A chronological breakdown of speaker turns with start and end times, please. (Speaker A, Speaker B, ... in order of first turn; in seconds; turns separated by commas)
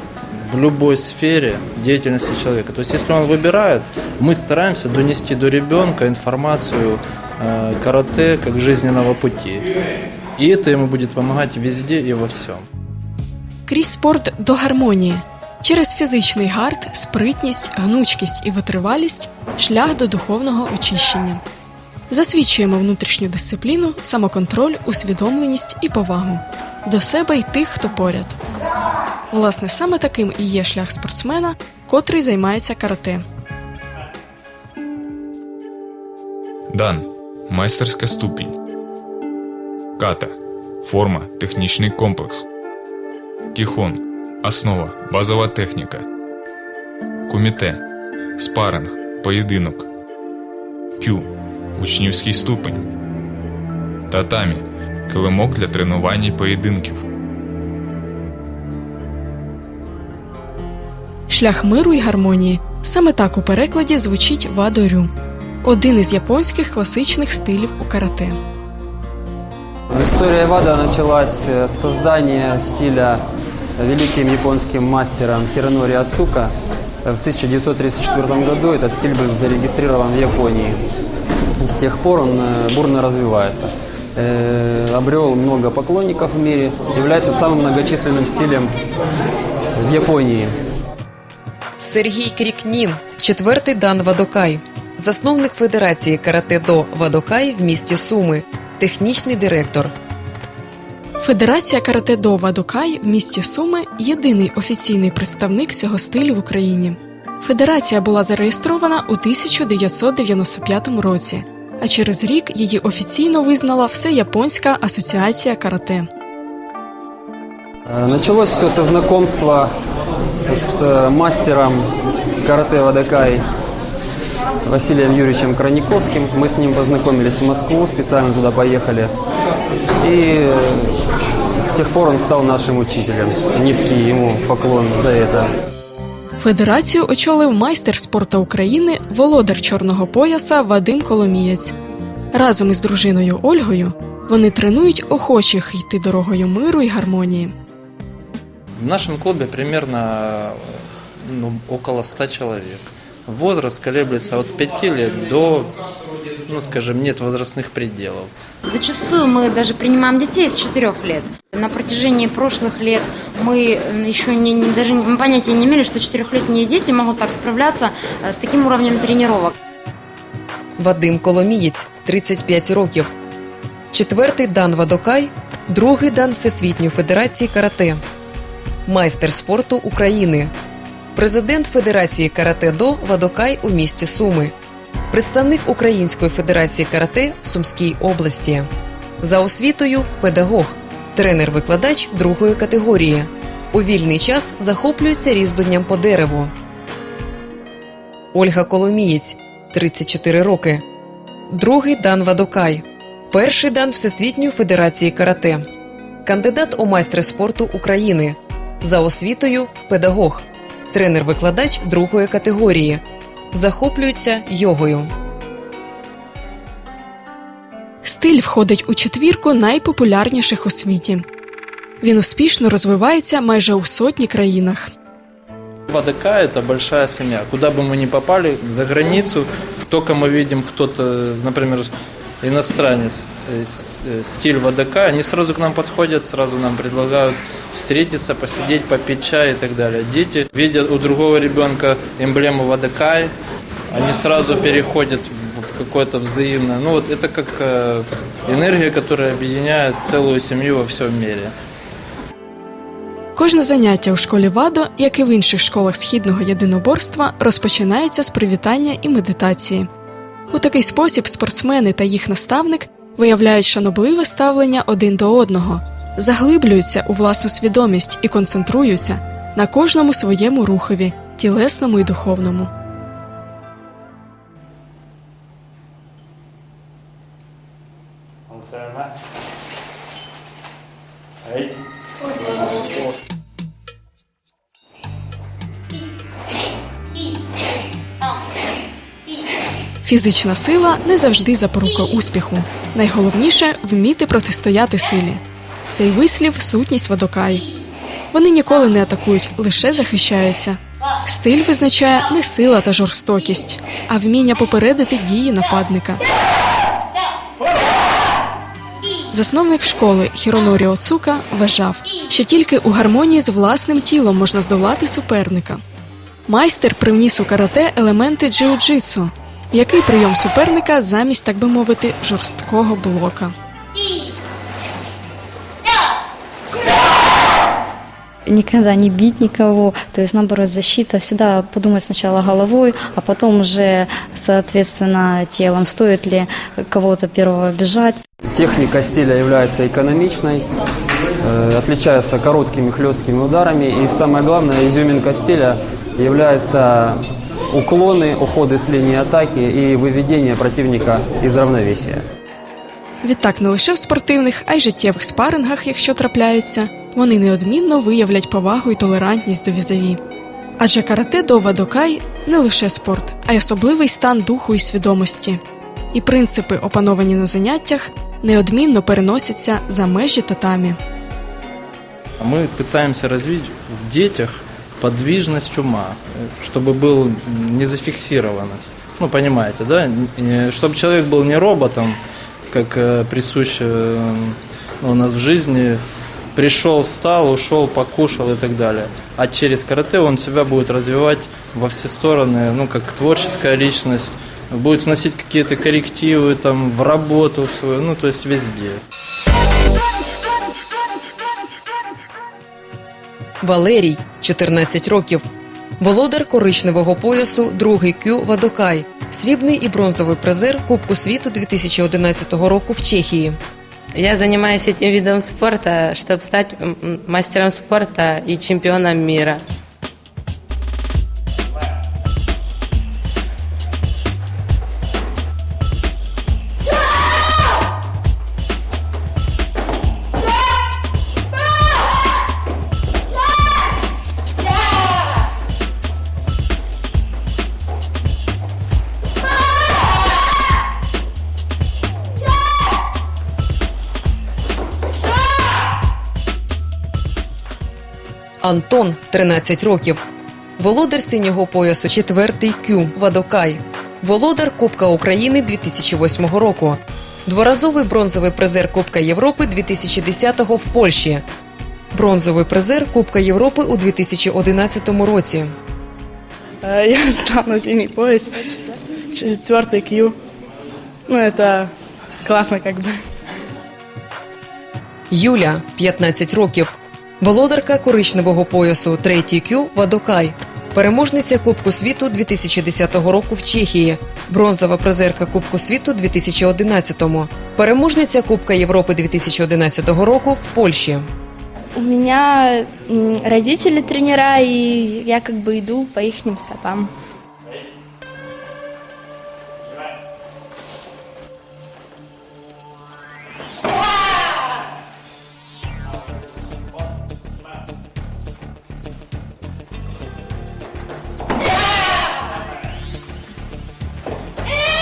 Speaker A: 0.4-9.7, Speaker A: 10.3-12.6, Speaker B: 13.7-21.4, Speaker B: 22.1-28.4, Speaker B: 29.3-33.2, Speaker C: 36.7-38.5, Speaker C: 40.0-40.3, Speaker C: 40.8-42.5, Speaker C: 43.5-46.0, Speaker C: 47.3-47.8, Speaker C: 48.4-49.9, Speaker C: 51.0-51.2, Speaker C: 51.8-52.8, Speaker C: 54.1-57.0, Speaker B: 61.3-65.1, Speaker B: 65.6-68.4, Speaker D: 69.9-73.2, Speaker D: 73.8-76.5, Speaker D: 77.0-80.8, Speaker D: 81.6-88.7, Speaker D: 89.8-90.5, Speaker E: 91.8-99.9, Speaker B: 101.2-116.1, Speaker D: 117.9-119.7, Speaker D: 120.5-121.9, Speaker D: 122.4-123.4, Speaker D: 124.6-129.1, Speaker D: 130.0-131.0, Speaker D: 131.6-135.5, Speaker B: 136.4-141.7, Speaker B: 142.3-147.5, Speaker A: 148.8-150.6, Speaker A: 151.2-155.7, Speaker A: 156.5-158.3, Speaker F: 158.6-169.5, Speaker E: 170.8-173.1, Speaker E: 173.9-178.0, Speaker E: 178.8-180.5, Speaker E: 181.2-184.5, Speaker E: 185.1-188.7, Speaker E: 189.2-196.5, Speaker E: 198.3-200.8, Speaker E: 201.5-205.6, Speaker E: 206.2-215.1, Speaker B: 218.0-221.2, Speaker B: 222.0-224.9, Speaker A: 225.9-231.9, Speaker A: 232.4-243.3, Speaker A: 243.9-251.5, Speaker B: 253.3-259.9, Speaker B: 260.5-272.7, Speaker B: 290.0-297.6, Speaker B: 298.3-306.2, Speaker B: 309.3-315.8, Speaker B: 316.4-323.5, Speaker G: 328.5-338.2, Speaker D: 338.5-340.6, Speaker D: 341.4-352.2, Speaker B: 353.2-360.2, Speaker B: 360.8-365.6, Speaker B: 366.1-371.0, Speaker A: 372.4-382.2, Speaker A: 382.7-386.0, Speaker A: 386.5-399.0, Speaker E: 403.6-405.4, Speaker E: 406.0-413.6, Speaker H: 414.2-419.5, Speaker E: 448.6-450.2, Speaker E: 450.8-461.4, Speaker E: 462.1-465.7, Speaker I: 466.8-470.3, Speaker I: 471.3-471.9, Speaker I: 472.4-473.2, Speaker E: 475.3-491.2, Speaker J: 491.9-497.1